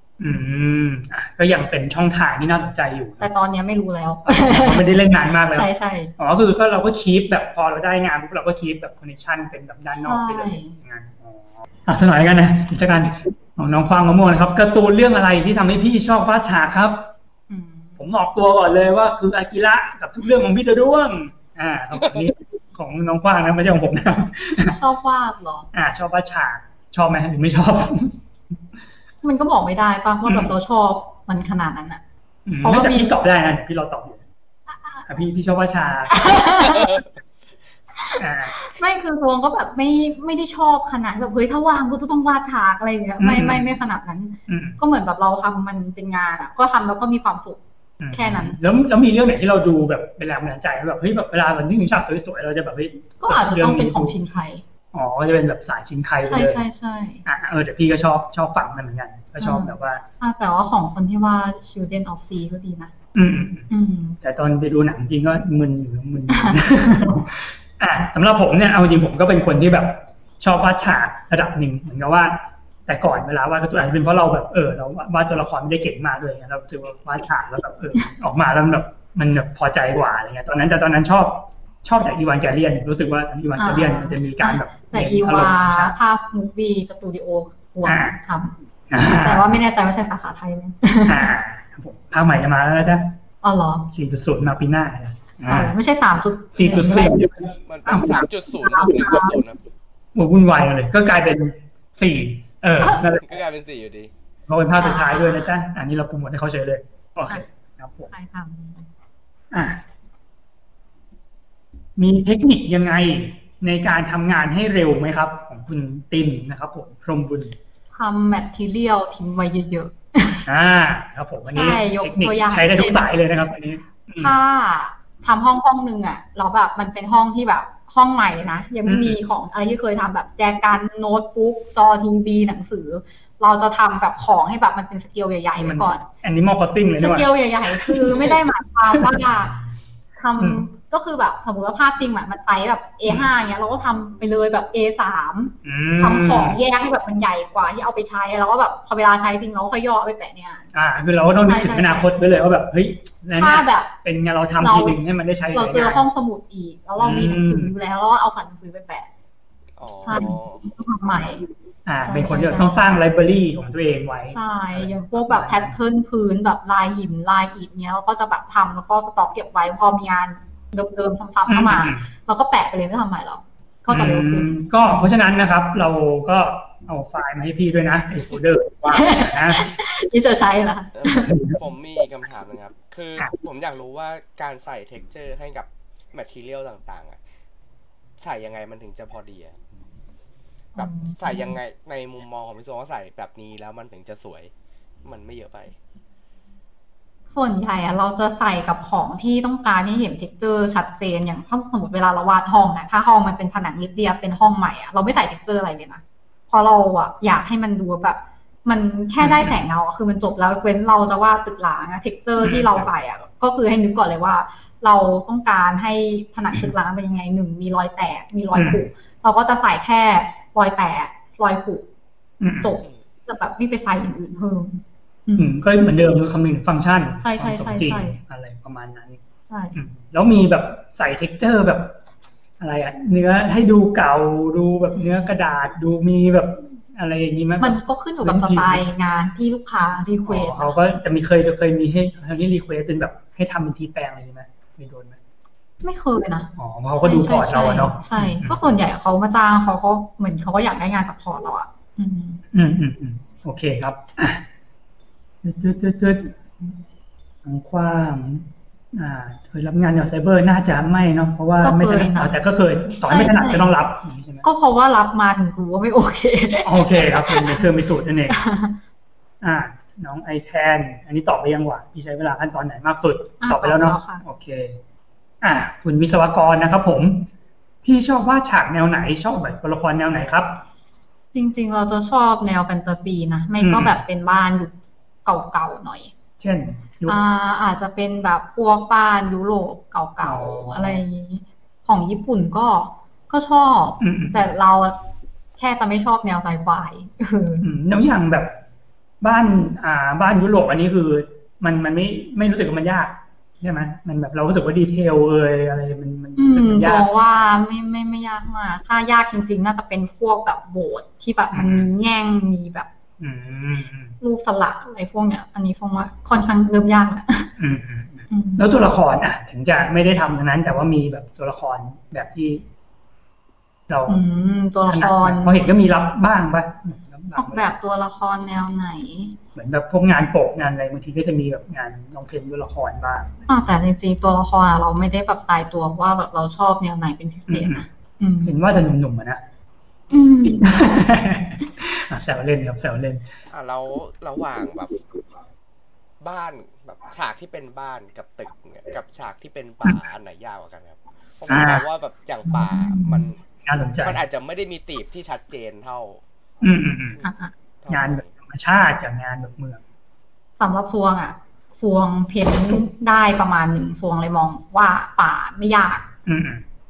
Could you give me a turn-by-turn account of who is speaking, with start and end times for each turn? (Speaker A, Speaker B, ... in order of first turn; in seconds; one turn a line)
Speaker A: 0.2-3.3
Speaker B: 3.2-5.0
Speaker A: 4.2-5.7
Speaker B: 5.5-6.1
Speaker A: 6.2-17.1
Speaker B: 9.9-10.8
Speaker B: 17.5-18.0
Speaker A: 18.0-24.8
Speaker B: 24.7-25.7
Speaker A: 25.7-28.1
Speaker B: 29.2-32.0
Speaker A: 30.2-30.5
Speaker A: 32.5-34.2
Speaker B: 32.6-33.1
Speaker A: 35.1-36.3
Speaker B: 36.1-37.0
Speaker B: 38.0-47.6
Speaker A: 38.2-38.6
Speaker A: 43.2-43.7
Speaker A: 44.5-44.8
Speaker A: 48.0-54.1
Speaker B: 48.1-48.6
Speaker B: 53.2-54.6
Speaker A: 54.9-56.6
Speaker B: 56.2-57.2
Speaker A: 57.2-60.0
Speaker B: 59.4-62.9
Speaker A: 63.1-63.7
Speaker B: 63.7-64.2
Speaker A: 64.2-85.9
Speaker B: 66.3-66.6
Speaker B: 83.6-88.5
Speaker A: 87.8-88.2
Speaker A: 88.9-89.6
Speaker B: 89.1-91.3
Speaker A: 91.1-93.1
Speaker B: 93.4-93.9
Speaker A: 93.9-95.7
Speaker B: 95.5-97.3
Speaker A: 96.5-98.3
Speaker C: 97.6-99.6
Speaker B: 98.6-99.4
Speaker A: 100.1-103.4
Speaker C: 103.1-104.1
Speaker A: 104.5-108.1
Speaker B: 104.8-105.5
Speaker B: 108.1-108.9
Speaker A: 109.5-109.8
Speaker A: 112.0-117.5
Speaker B: 117.9-120.5
Speaker A: 120.5-124.3
Speaker B: 121.4-123.1
Speaker B: 124.2-136.0
Speaker A: 128.8-129.2
Speaker A: 135.6-138.4
Speaker B: 137.0-139.6
Speaker A: 138.9-139.2
Speaker B: 140.2-150.7
Speaker A: 140.4-140.6
Speaker A: 145.6-146.6
Speaker A: 150.7-156.1
Speaker B: 151.4-152.1
Speaker B: 153.3-153.9
Speaker B: 154.6-155.0
Speaker B: 155.5-159.1
Speaker A: 157.0-157.7
Speaker C: 159.8-160.6
Speaker B: 160.0-161.4
Speaker A: 161.8-165.7
Speaker B: 162.0-162.9
Speaker B: 164.3-174.9
Speaker A: 171.5-172.1
Speaker A: 173.9-179.6
Speaker B: 178.9-181.4
Speaker C: 181.0-187.2
Speaker A: 181.3-181.6
Speaker C: 188.2-189.6
Speaker B: 190.8-191.6
Speaker C: 190.8-194.5
Speaker C: 195.0-195.8
Speaker B: 197.3-221.8
Speaker A: 209.2-209.6
Speaker A: 212.4-212.9
Speaker A: 218.5-218.8
Speaker A: 222.4-222.8
Speaker B: 222.6-225.6
Speaker A: 225.4-229.2
Speaker B: 227.2-228.2
Speaker B: 229.5-229.8
Speaker A: 229.7-231.9
Speaker A: 232.6-238.8
Speaker B: 237.6-240.8
Speaker A: 240.3-245.2
Speaker B: 245.8-252.4
Speaker A: 246.6-248.7
Speaker A: 252.5-254.4
Speaker A: 255.4-256.7
Speaker A: 257.4-264.4
Speaker B: 261.6-262.4
Speaker B: 263.0-263.7
Speaker B: 264.4-267.6
Speaker A: 266.6-268.4
Speaker B: 268.3-268.8
Speaker A: 269.4-274.8
Speaker B: 273.4-274.2
Speaker A: 275.4-277.3
Speaker A: 277.8-280.6
Speaker B: 281.3-284.7
Speaker A: 283.6-284.0
Speaker B: 285.2-286.1
Speaker A: 286.4-287.2
Speaker B: 287.1-295.0
Speaker A: 290.2-291.0
Speaker A: 294.0-294.5
Speaker B: 295.6-297.7
Speaker A: 297.6-298.5
Speaker A: 299.2-307.1
Speaker B: 306.4-312.9
Speaker A: 311.5-311.9
Speaker A: 313.2-314.1
Speaker B: 314.2-317.5
Speaker A: 317.6-322.6
Speaker B: 318.3-318.6
Speaker A: 323.9-324.2
Speaker B: 324.1-325.6
Speaker A: 324.9-327.7
Speaker B: 327.4-329.4
Speaker A: 329.5-333.3
Speaker B: 333.5-338.6
Speaker A: 337.5-337.8
Speaker A: 338.4-339.4
Speaker B: 340.1-340.8
Speaker A: 340.4-343.3
Speaker C: 343.5-345.0
Speaker C: 346.2-353.4
Speaker A: 351.5-351.8
Speaker A: 352.6-354.2
Speaker C: 354.0-356.2
Speaker A: 356.6-357.2
Speaker B: 357.2-357.5
Speaker C: 357.8-358.3
Speaker A: 357.9-359.8
Speaker B: 360.6-366.1
Speaker A: 366.3-366.6